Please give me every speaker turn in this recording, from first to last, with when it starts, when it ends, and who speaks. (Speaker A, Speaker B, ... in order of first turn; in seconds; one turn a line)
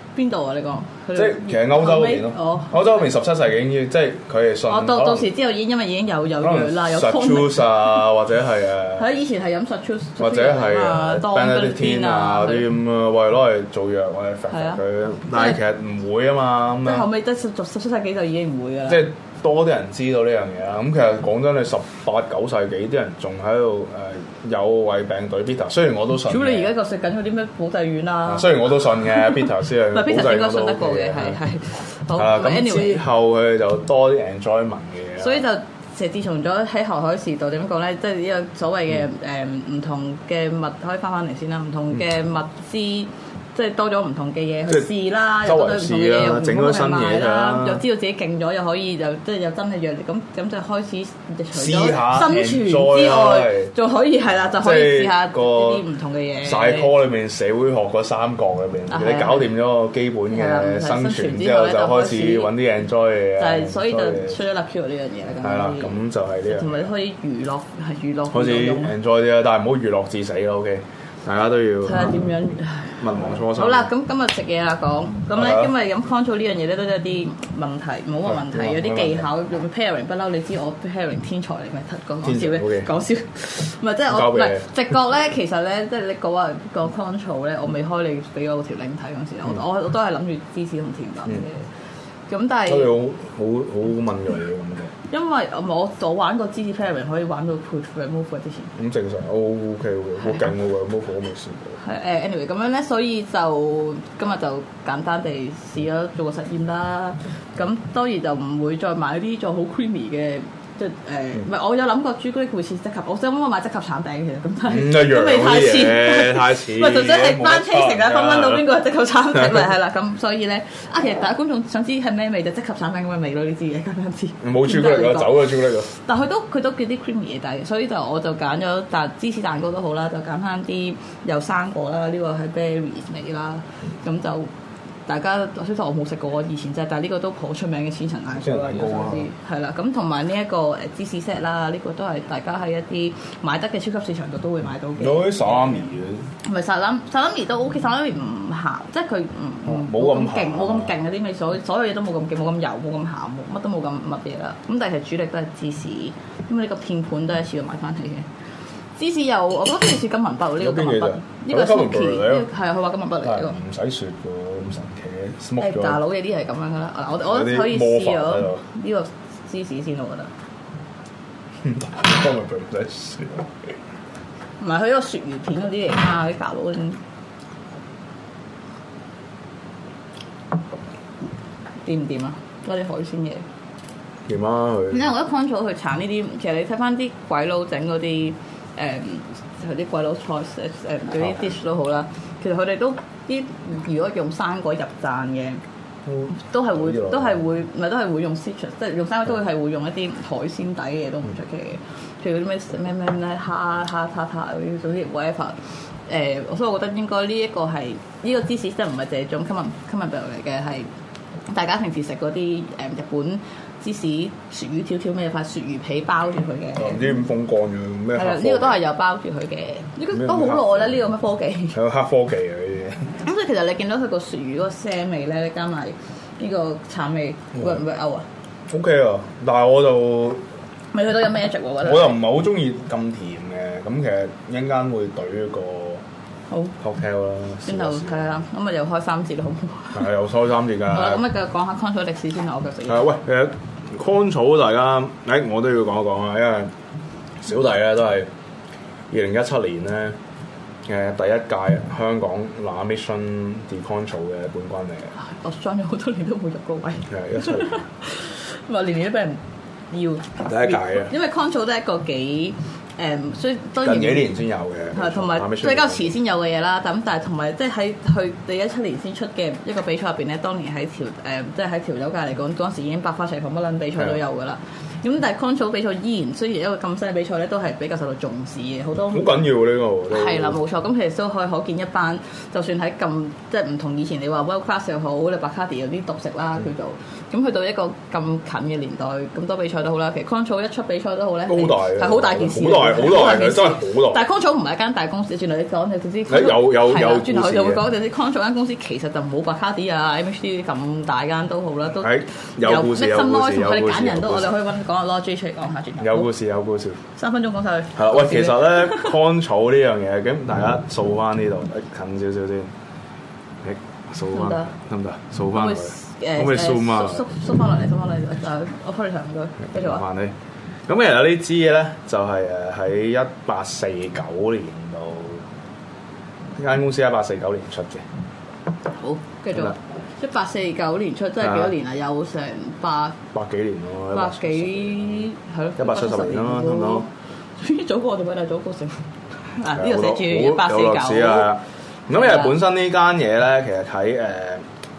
Speaker A: 0.1-3.1
Speaker B: 1.2-5.3
Speaker A: 4.7-8.1
Speaker B: 6.4-9.1
Speaker A: 9.0-12.7
Speaker B: 10.2-17.1
Speaker A: 14.5-15.6
Speaker A: 16.8-19.1
Speaker B: 18.9-26.7
Speaker A: 26.3-33.0
Speaker B: 28.3-31.4
Speaker B: 32.1-35.5
Speaker A: 35.2-56.9
Speaker B: 45.4-47.8
Speaker B: 51.5-53.7
Speaker B: 54.4-55.9
Speaker B: 56.4-64.4
Speaker A: 58.9-59.5
Speaker A: 60.3-62.5
Speaker A: 63.4-69.0
Speaker B: 65.4-66.9
Speaker B: 68.3-72.3
Speaker A: 71.8-91.7
Speaker B: 73.0-73.9
Speaker B: 75.3-75.7
Speaker B: 78.3-79.3
Speaker B: 82.2-82.9
Speaker B: 84.1-84.7
Speaker A: 92.3-92.9
Speaker B: 92.7-94.9
Speaker A: 95.1-98.7
Speaker B: 98.8-101.8
Speaker A: 101.8-134.5
Speaker B: 114.7-118.7
Speaker B: 119.3-119.7
Speaker B: 124.4-125.9
Speaker A: 135.1-145.9
Speaker B: 138.3-139.3
Speaker B: 145.0-146.3
Speaker A: 146.4-158.3
Speaker B: 149.7-150.9
Speaker A: 159.0-163.6
Speaker B: 160.6-162.5
Speaker B: 163.2-166.0
Speaker A: 165.6-170.3
Speaker B: 167.2-168.6
Speaker B: 171.6-173.5
Speaker A: 174.6-177.0
Speaker A: 181.8-183.4
Speaker B: 184.3-185.1
Speaker A: 184.9-195.6
Speaker B: 196.1-197.4
Speaker A: 196.3-210.9
Speaker A: 211.5-217.2
Speaker B: 216.8-218.8
Speaker A: 218.1-221.8
Speaker B: 220.1-221.0
Speaker B: 221.7-223.2
Speaker A: 223.2-228.3
Speaker B: 228.7-230.4
Speaker A: 230.9-232.2
Speaker B: 231.8-236.0
Speaker B: 236.8-238.2
Speaker A: 237.7-240.0
Speaker B: 239.9-241.3
Speaker A: 240.9-243.2
Speaker B: 242.9-246.7
Speaker B: 247.4-248.3
Speaker B: 249.1-250.2
Speaker B: 250.9-255.1
Speaker A: 255.2-264.3
Speaker B: 257.1-257.8
Speaker B: 260.4-261.1
Speaker B: 263.8-266.2
Speaker A: 264.9-279.5
Speaker B: 279.1-280.6
Speaker A: 280.1-306.3
Speaker B: 291.5-294.3
Speaker B: 296.3-297.9
Speaker B: 302.0-304.6
Speaker B: 306.0-307.0
Speaker A: 307.1-309.2
Speaker B: 307.9-312.7
Speaker B: 313.6-317.3
Speaker A: 314.3-314.7
Speaker A: 315.5-320.0
Speaker B: 319.6-320.4
Speaker B: 320.9-325.4
Speaker B: 326.6-328.1
Speaker A: 329.0-333.2
Speaker B: 331.4-331.7
Speaker B: 333.3-337.1
Speaker A: 334.1-341.5
Speaker B: 339.7-344.6
Speaker A: 342.1-342.5